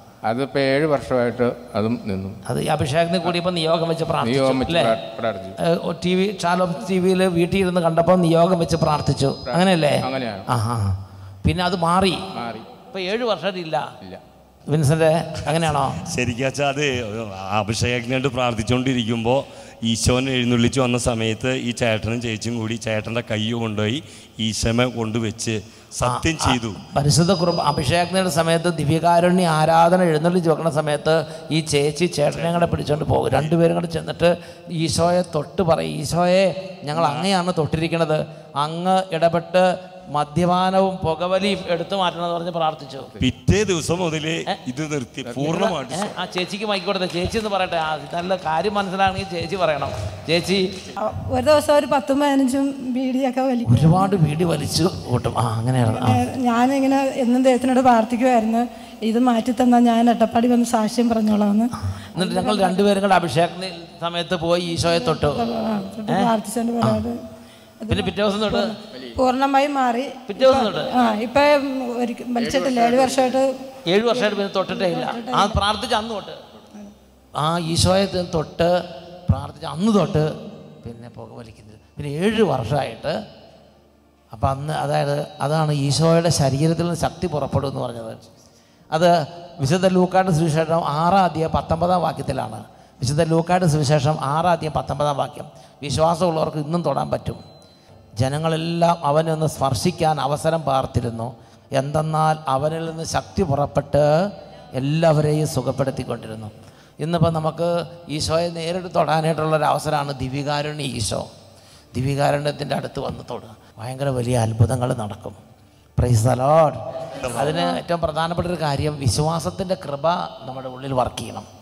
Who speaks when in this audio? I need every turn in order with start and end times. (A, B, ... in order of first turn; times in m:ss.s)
0:00.3-0:02.4 A
0:02.5-0:05.0 B
0:04.2-0:05.6 A
0:05.6-0:12.2 B
0:09.5-0:10.5 A
0:12.3-0:12.7 A
0:12.9-0:13.9 B
0:14.7-0:16.0 B
0:15.6-0:26.8 C
0:26.0-0:43.1 B
0:32.3-0:33.5 C
0:36.9-0:37.2 A
0:43.2-0:46.2 C
0:45.4-0:50.7 B
0:51.0-0:54.2 D
0:53.7-0:56.2 B
0:55.9-1:03.0 D
1:02.1-1:05.4 B
1:05.0-1:07.2 D
1:07.8-1:13.5 D
1:07.9-1:08.7 B
1:08.9-1:09.2 A
1:10.3-1:10.9 B
1:12.4-1:13.4 A
1:13.9-1:16.4 B
1:14.1-1:15.6 D
1:17.4-1:20.3 B
1:20.8-1:23.2 B
1:24.3-1:28.2 B
1:28.9-1:37.4 B
1:38.2-1:44.1 B
1:44.7-1:51.3 B
1:51.9-1:55.4 B
1:56.0-1:56.8 B
1:57.2-1:57.5 C
1:57.3-2:01.5 B